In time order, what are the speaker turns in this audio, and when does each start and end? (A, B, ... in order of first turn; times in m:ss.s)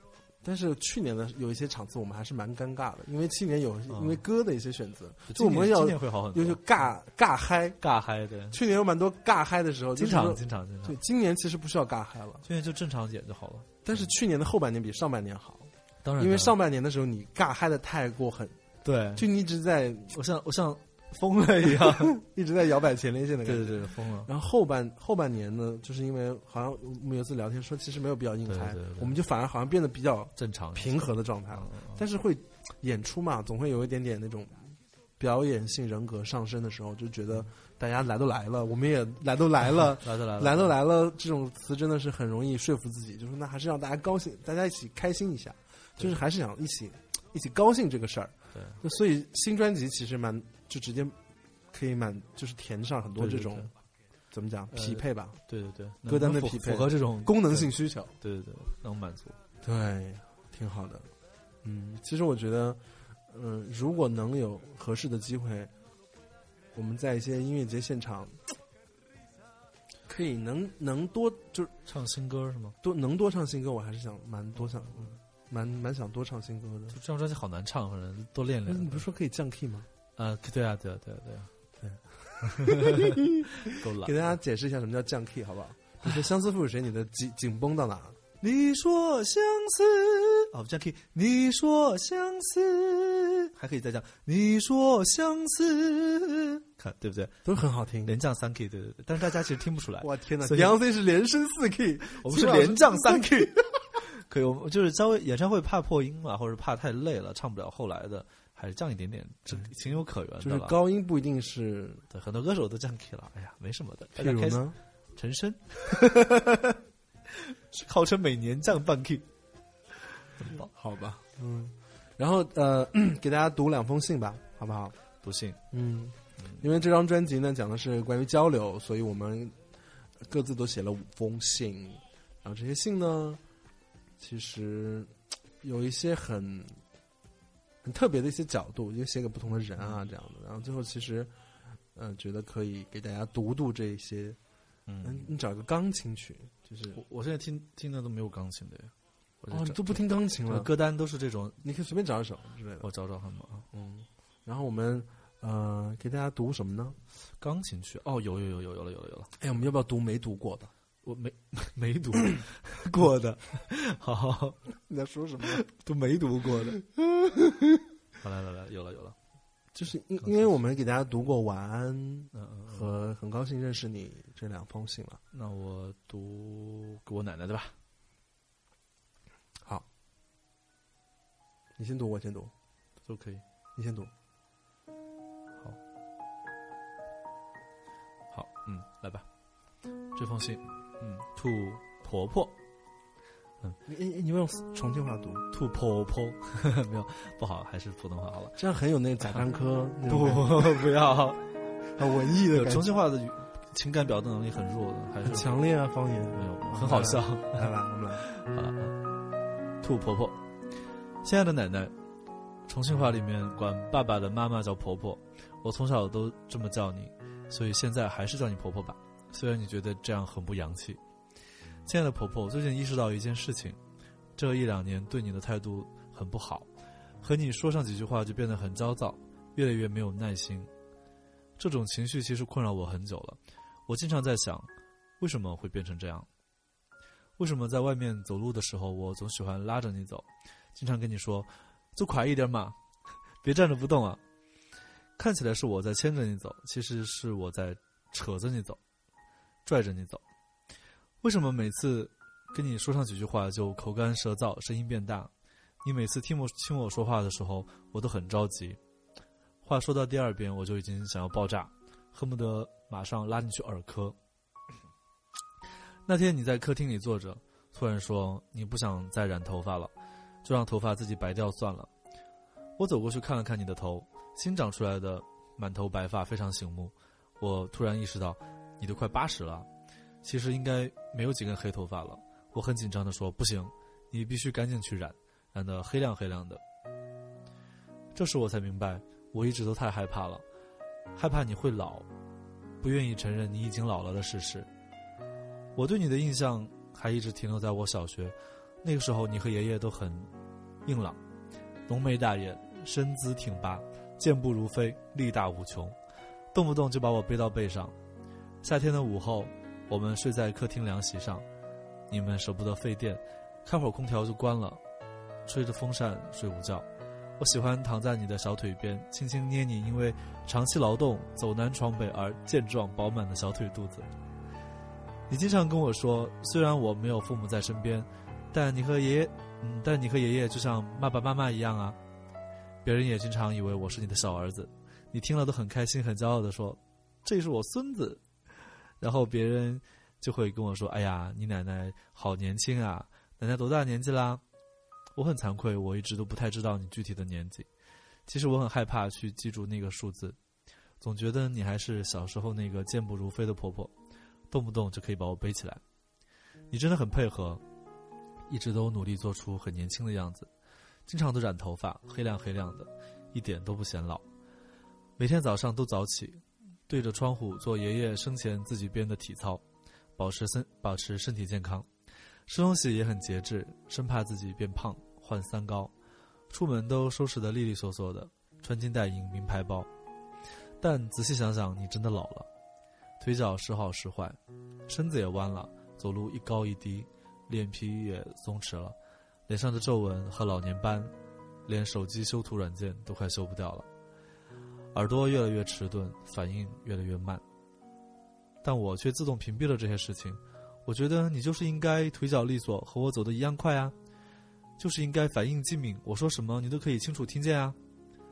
0:00.4-0:07.8 A
0:03.9-0:04.2 B
0:05.3-0:06.6 B
0:07.8-0:08.6 B
0:08.5-0:12.5 A
0:10.0-0:11.0 B
0:12.4-0:14.0 B
0:13.8-0:18.6 A
0:16.0-0:16.6 B
0:18.8-0:19.3 B
0:19.2-0:20.2 A
0:20.1-0:22.1 B
0:21.8-0:51.2 A
0:23.4-0:24.3 B
0:28.5-0:29.2 B
0:30.4-0:32.0 B
0:39.9-0:40.8 B
0:48.5-0:48.8 B
0:51.7-0:53.7 A
0:53.2-0:53.7 B
0:54.3-0:55.4 A
0:54.7-0:59.4 B
0:56.0-0:58.2 A
0:59.6-1:01.1 A
1:01.6-1:05.7 A
1:06.7-1:08.4 A
1:10.1-1:11.7 A
1:11.9-1:12.8 B
1:12.8-1:17.0 A
1:16.9-1:19.1 B
1:18.7-1:19.9 A
1:20.2-1:21.5 B
1:21.8-1:28.2 A
1:22.6-1:23.1 B
1:23.7-1:24.2 B
1:28.4-1:37.4 B
1:37.4-1:38.2 A
1:38.0-1:40.8 B
1:40.0-1:43.8 A
1:42.2-1:50.8 B
1:50.4-1:52.0 A
1:52.1-1:56.8 B
1:54.2-1:54.8 A
1:57.3-1:59.3 B
2:00.4-2:00.7 B
2:00.5-2:05.0 A
2:05.2-2:05.6 B
2:05.7-2:09.6 A
2:10.2-2:13.4 A
2:14.2-2:16.8 A
2:17.8-2:21.3 A
2:19.8-2:20.1 B
2:22.0-2:24.4 A
2:24.9-2:25.3 B
2:25.0-2:27.0 A
2:26.9-2:31.6 B
2:29.5-2:30.7 A
2:31.6-2:32.9 A
2:32.8-2:33.7 B
2:33.7-2:37.0 A
2:37.4-2:39.3 B
2:39.4-2:40.7 A
2:41.0-2:44.6 B
2:44.8-2:45.6 A
2:45.4-2:46.8 B
2:47.2-2:47.7 A
2:48.2-2:49.2 B
2:49.7-2:55.2 A
2:52.3-2:52.9 B
2:55.3-2:57.8 B
3:01.8-3:02.5 A
3:03.0-3:03.4 B
3:03.8-3:04.1 A
3:08.3-3:09.3 B
3:10.2-3:12.6 B
3:13.9-3:15.4 A
3:15.5-3:18.6 B
3:18.6-3:20.8 A
3:20.1-3:21.4 B
3:22.0-3:23.0 A
3:22.5-3:25.6 B
3:25.2-3:28.3 A
3:26.3-3:27.7 B
3:28.2-3:29.0 B
3:29.8-3:30.4 B
3:31.2-3:31.9 B
3:32.7-3:41.0 B
3:41.8-3:43.8 B
3:44.4-3:46.7 B
3:47.2-3:50.7 B
3:51.6-3:56.3 B
3:57.4-4:02.8 B
4:03.4-4:04.2 B
4:05.2-4:08.8 B
4:09.6-4:10.2 B
4:11.2-4:15.3 B
4:15.8-4:18.8 B
4:19.6-4:24.2 B
4:26.1-4:29.9 B
4:30.4-4:31.9 B
4:32.8-4:39.7 B
4:40.2-4:46.6 B
4:48.1-4:50.4 B
4:51.2-4:52.1 B
4:52.8-4:54.7 B
4:55.8-5:00.3 B
5:00.8-5:01.2 B
5:01.9-5:06.0 B
5:06.5-5:08.0 B
5:08.6-5:11.5 B
5:12.1-5:14.8 B
5:15.4-5:16.9 B
5:17.4-5:24.1 B
5:25.3-5:32.0 B
5:32.8-5:38.2 B
5:39.0-5:44.4 B
5:45.2-5:47.7 B
5:48.3-5:50.4 B
5:51.0-5:53.9 B
5:54.5-5:55.8 B
5:56.7-5:57.6 B
5:58.5-6:00.5 B
6:01.1-6:04.2 B
6:05.2-6:09.6 B
6:10.2-6:11.9 B
6:12.5-6:15.9 B
6:16.5-6:19.9 B
6:20.8-6:22.5 B
6:23.2-6:29.0 B
6:29.5-6:31.1 B
6:31.7-6:33.9 B
6:34.9-6:37.4 B
6:38.6-6:43.9 B
6:44.8-6:47.8 B